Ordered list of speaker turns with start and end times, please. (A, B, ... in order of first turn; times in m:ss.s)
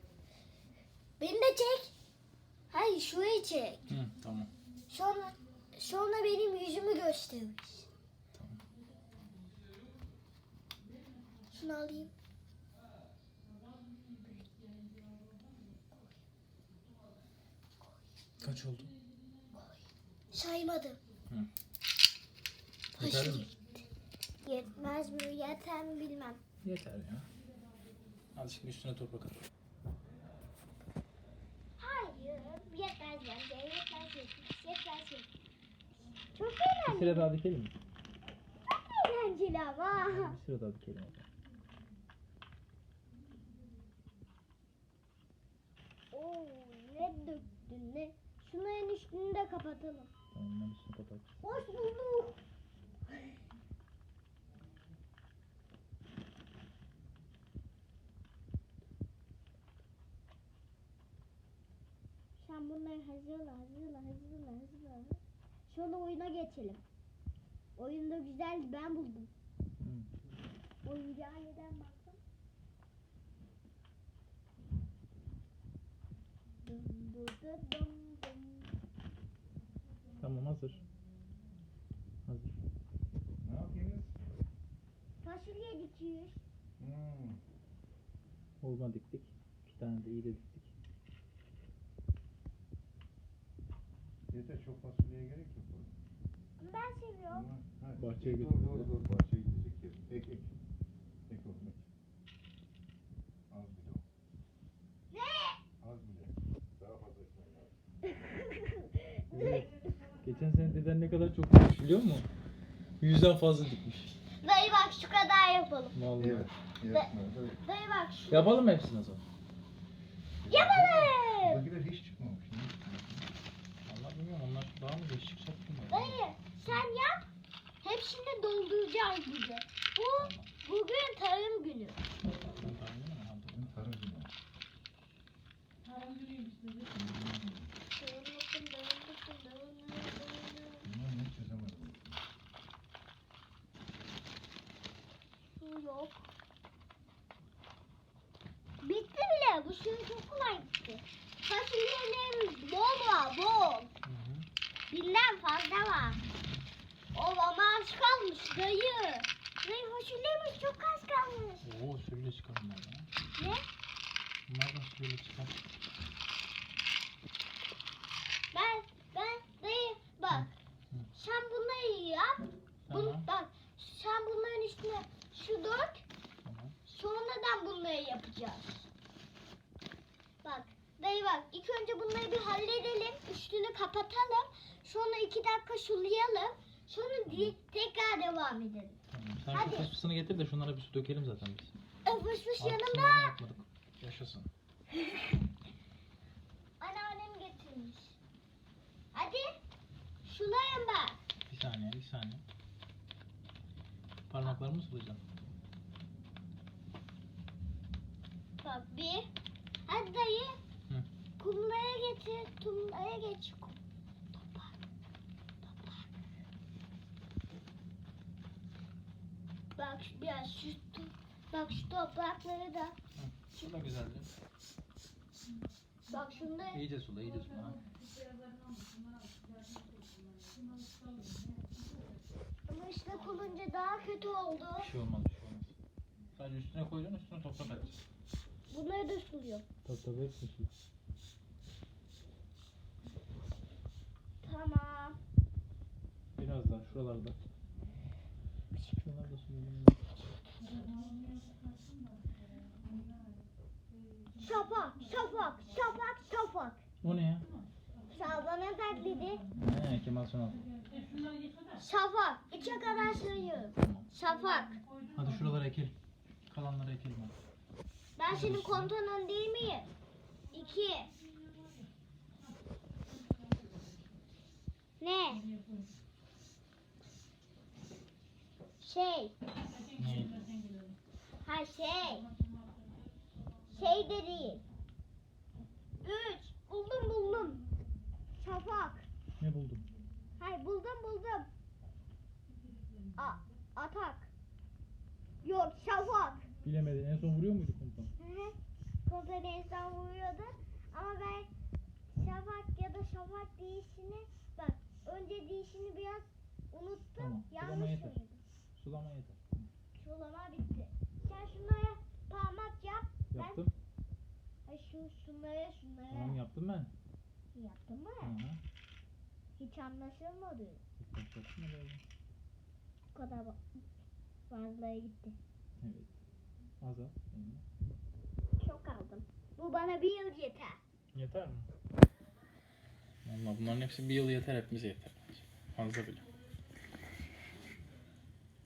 0:01.2-0:01.9 A
0:02.7-0:03.8 A
0:03.9-0:04.5 B
0:04.9-0:07.9 A
0:08.3-0:08.6 B
0:11.5-0:12.1 A
0:18.4-0:18.9 B
0:20.3-0:21.0 A
0:23.0-0:23.5 B
0:23.0-0:23.5 A
0:24.4-0:26.4 A
0:26.6-0:27.2 B
0:28.3-0:29.4 B
0:31.8-0:35.3 A
0:36.3-0:37.3 A
0:36.8-0:37.7 B
0:38.7-0:40.4 A
0:40.0-0:41.3 B
0:46.1-0:50.1 A
0:50.3-0:51.4 B
0:51.4-0:52.4 A
1:02.4-1:06.8 A
1:07.8-1:09.3 A
1:09.8-1:10.1 B
1:10.8-1:12.2 A
1:16.6-1:18.7 A
1:20.2-1:20.8 B
1:22.2-1:22.5 B
1:23.4-1:24.1 C
1:25.2-1:26.4 A
1:26.8-1:27.4 C
1:28.6-1:30.7 B
1:34.3-1:35.9 C
1:36.6-1:37.5 A
1:37.3-1:40.5 C
1:38.0-1:38.9 B
1:41.3-1:41.8 C
1:43.5-1:44.0 C
1:45.1-1:45.6 A
1:45.8-1:47.7 C
1:48.1-1:49.8 A
1:49.3-1:49.7 B
1:50.2-1:52.3 B
1:53.0-1:54.2 B
1:54.4-1:56.0 A
1:55.9-1:56.5 B
1:56.2-1:57.6 C
1:56.9-1:58.5 A
1:58.3-1:59.2 B
2:00.4-2:03.1 C
2:00.5-2:01.6 A
2:03.8-2:06.8 B
2:05.9-2:07.2 A
2:07.8-2:12.0 A
2:10.2-2:10.5 B
2:12.6-2:13.8 B
2:13.5-2:14.3 C
2:16.9-2:17.7 C
2:17.9-2:20.9 A
2:20.8-2:22.2 C
2:25.6-2:26.3 A
2:28.8-2:33.9 A
2:34.0-2:34.5 B
2:34.9-2:36.2 A
2:37.1-2:41.6 A
2:41.6-2:43.1 B
2:43.4-2:43.6 A
2:44.5-2:45.6 B
2:48.5-2:50.5 A
2:50.3-2:51.1 B
2:51.1-2:56.0 A
2:52.9-2:53.2 B
2:56.4-2:56.8 B
2:56.8-2:58.9 A
3:00.4-3:09.0 A
3:07.3-3:07.5 B
3:09.1-3:11.8 B
3:09.5-3:09.9 A
3:12.0-3:13.3 A
3:12.6-3:14.5 B
3:14.9-3:15.4 A
3:16.8-3:18.2 A
3:19.1-3:19.6 A
3:20.2-3:21.2 A
3:21.5-3:22.4 B
3:24.3-3:25.2 B
3:28.6-3:29.3 A
3:29.8-3:30.6 A
3:31.4-3:33.8 A
3:34.3-3:34.8 A
3:35.6-3:36.1 A
3:39.8-3:43.0 A
3:43.1-3:44.3 B
3:46.1-3:46.8 A
3:46.7-3:47.8 B
3:52.7-3:54.9 A
3:54.8-3:55.7 B
3:56.3-3:58.0 B
3:58.7-3:59.6 A
3:59.8-4:00.7 B
4:04.4-4:05.2 A
4:06.4-4:07.4 B
4:08.9-4:10.0 B
4:14.4-4:16.8 A
4:17.0-4:17.5 B
4:18.1-4:19.4 A
4:19.6-4:20.6 B
4:21.8-4:24.8 A
4:23.8-4:24.1 B
4:25.1-4:25.9 B
4:26.5-4:27.3 B
4:28.2-4:29.9 A
4:28.3-4:28.9 B
4:30.5-4:31.1 A
4:35.0-4:35.4 A
4:38.8-4:39.3 A
4:39.9-4:40.4 B
4:41.4-4:42.3 A
4:43.7-4:44.6 A
4:46.0-4:47.6 A
4:48.4-4:49.0 A
4:49.4-4:49.8 B
4:50.4-4:51.5 A
4:53.2-4:54.3 A
4:55.4-4:56.5 A
4:56.6-4:58.1 B
4:58.2-5:01.5 A
5:02.1-5:08.4 A
5:07.2-5:08.1 B
5:08.8-5:09.7 B
5:10.0-5:13.6 A
5:13.3-5:13.7 B
5:14.6-5:16.4 A
5:16.1-5:16.9 B
5:17.5-5:18.3 A
5:18.2-5:18.6 B
5:19.6-5:20.8 A
5:21.0-5:22.0 B
5:23.1-5:23.6 A
5:24.5-5:25.4 A
5:25.8-5:26.1 B
5:26.8-5:27.6 B
5:28.6-5:30.8 A
5:31.1-5:31.7 B
5:33.2-5:36.2 B